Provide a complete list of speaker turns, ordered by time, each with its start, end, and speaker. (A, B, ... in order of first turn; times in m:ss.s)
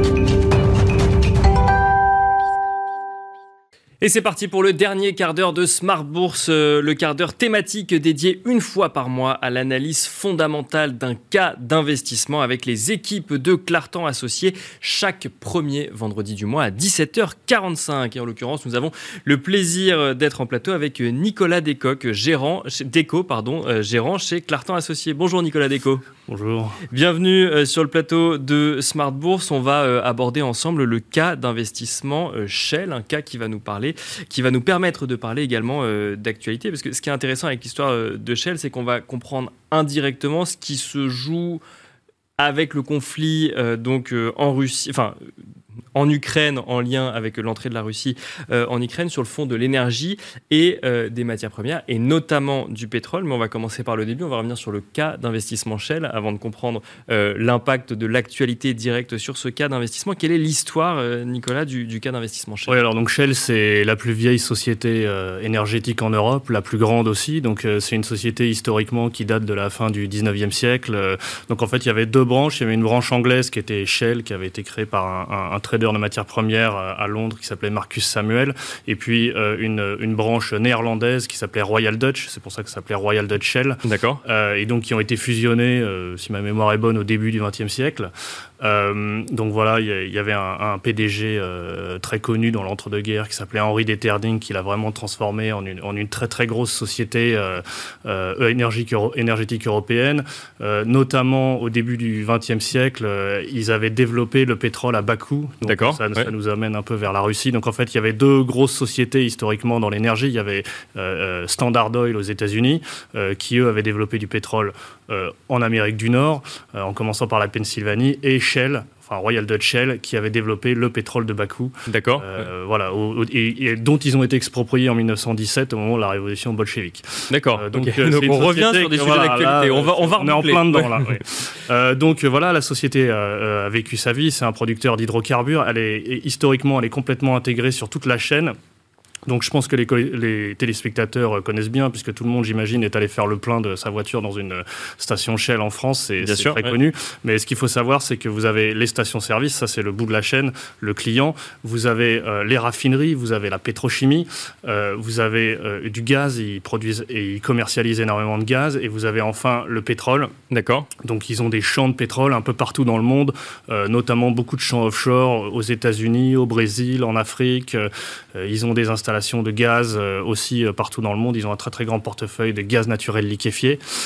0:04.0-0:26.0 A
0:26.3-0:26.8 B
0:26.9-0:41.6 A
0:42.4-0:45.2 A
0:45.9-1:02.8 A
1:02.7-2:18.5 B
1:23.8-1:24.2 A
1:45.6-1:46.3 A
2:01.9-2:02.4 A
2:07.3-2:11.2 A
2:19.3-2:40.3 B
2:26.2-2:26.7 A
2:40.5-2:40.9 A
2:41.0-2:53.8 B